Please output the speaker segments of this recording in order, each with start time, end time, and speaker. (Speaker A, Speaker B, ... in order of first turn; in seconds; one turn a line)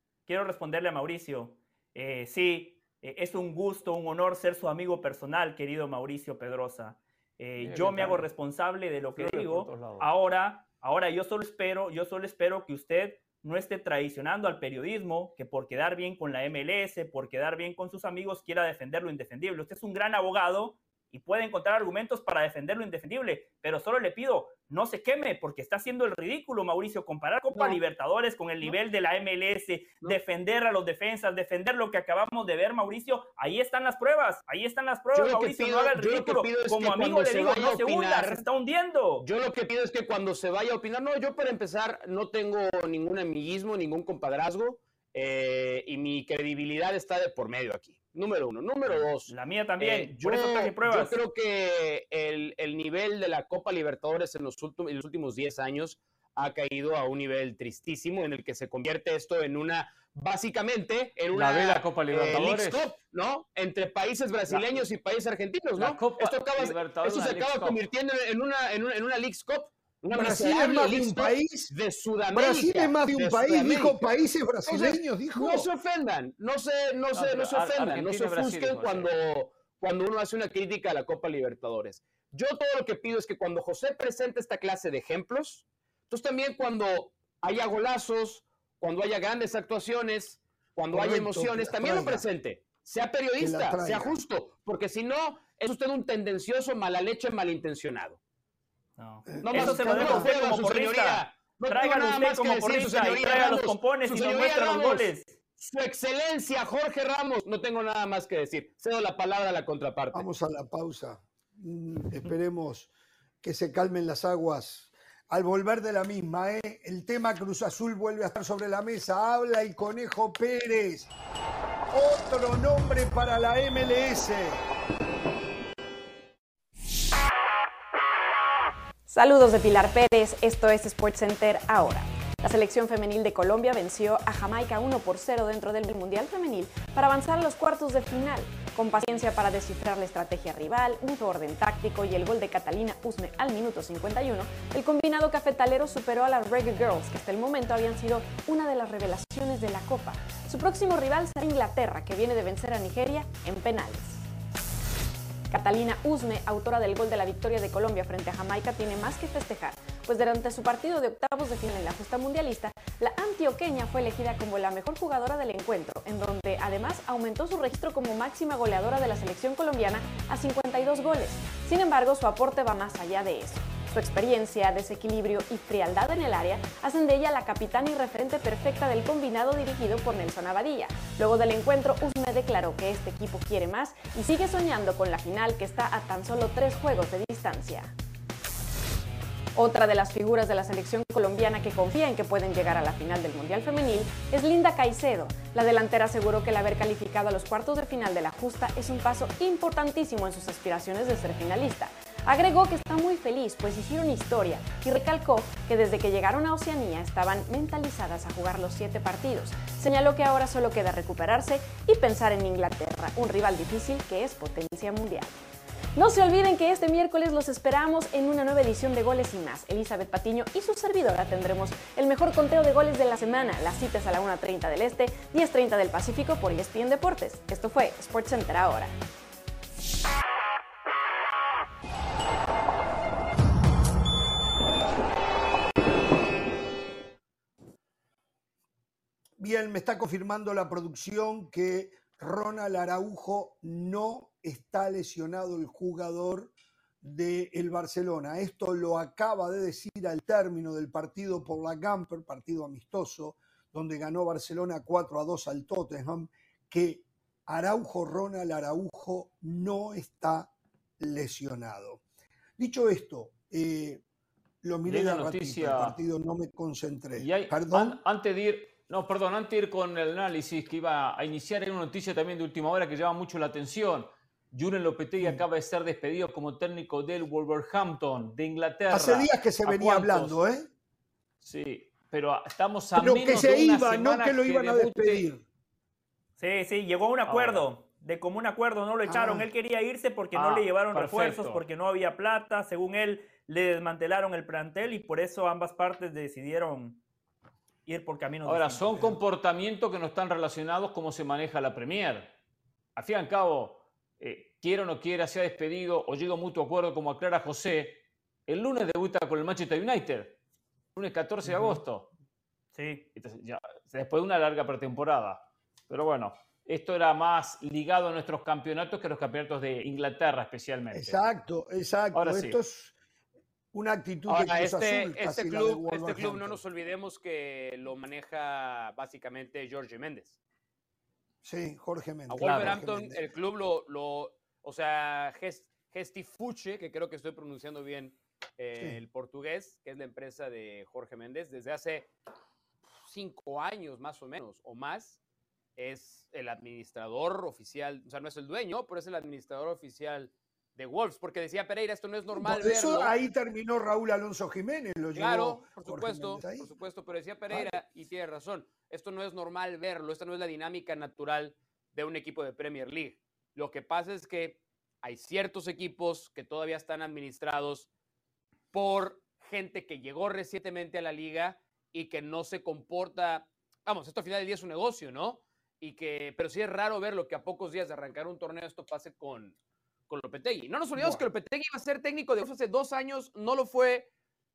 Speaker A: 0.3-39.2
Speaker B: 7.6-8.3
Speaker B: 9.1-10.1
Speaker C: 27.5-27.8
Speaker C: 35.1-38.4
Speaker C: 39.2-74.1
Speaker A: 48.8-51.2
Speaker B: 61.3-62.8
Speaker B: 64.5-64.8
Speaker B: 65.8-67.8
Speaker D: 70.1-71.7
Speaker D: 72.3-75.7
Speaker C: 74.7-98.2
Speaker B: 77.1-79.1
Speaker D: 90.9-92.2
Speaker D: 93.4-94.2
Speaker A: 99.0-105.3
Speaker D: 99.3-100.3
Speaker C: 99.4-110.2
Speaker D: 110.1-112.9
Speaker D: 113.4-121.1
Speaker D: 121.9-124.7
Speaker E: 129.1-154.2
Speaker E: 155.5-187.9
Speaker E: 189.5-215.4
Speaker E: 215.9-228.9
Speaker D: 239.4-262.0
Speaker D: 262.6-264.0
Speaker D: 264.6-268.0
Speaker B: 264.9-266.0
Speaker B: 267.2-280.4
Speaker D: 278.9-280.7
Speaker B: 281.4-285.3
Speaker D: 282.9-285.4
Speaker A: 286.4-297.0
Speaker B: 287.3-287.7
Speaker D: 289.1-289.5
Speaker B: 290.3-291.6
Speaker A: 297.9-299.1
Speaker B: 298.4-302.3
Speaker B: 302.9-310.4
Speaker B: 310.9-312.1
Speaker A: 312.7-313.1
Speaker B: 313.1-321.2
Speaker D: 320.9-322.9
Speaker B: 322.1-322.6
Speaker D: 323.7-326.6
Speaker C: 324.3-330.4
Speaker D: 331.4-333.2
Speaker C: 332.3-342.1
Speaker B: 332.4-332.7
Speaker C: 342.9-345.2
Speaker C: 345.8-353.1
Speaker D: 352.3-356.7
Speaker C: 355.1-367.9
Speaker D: 357.5-357.8
Speaker C: 368.7-379.6
Speaker C: 380.1-384.1
Speaker D: 380.9-381.2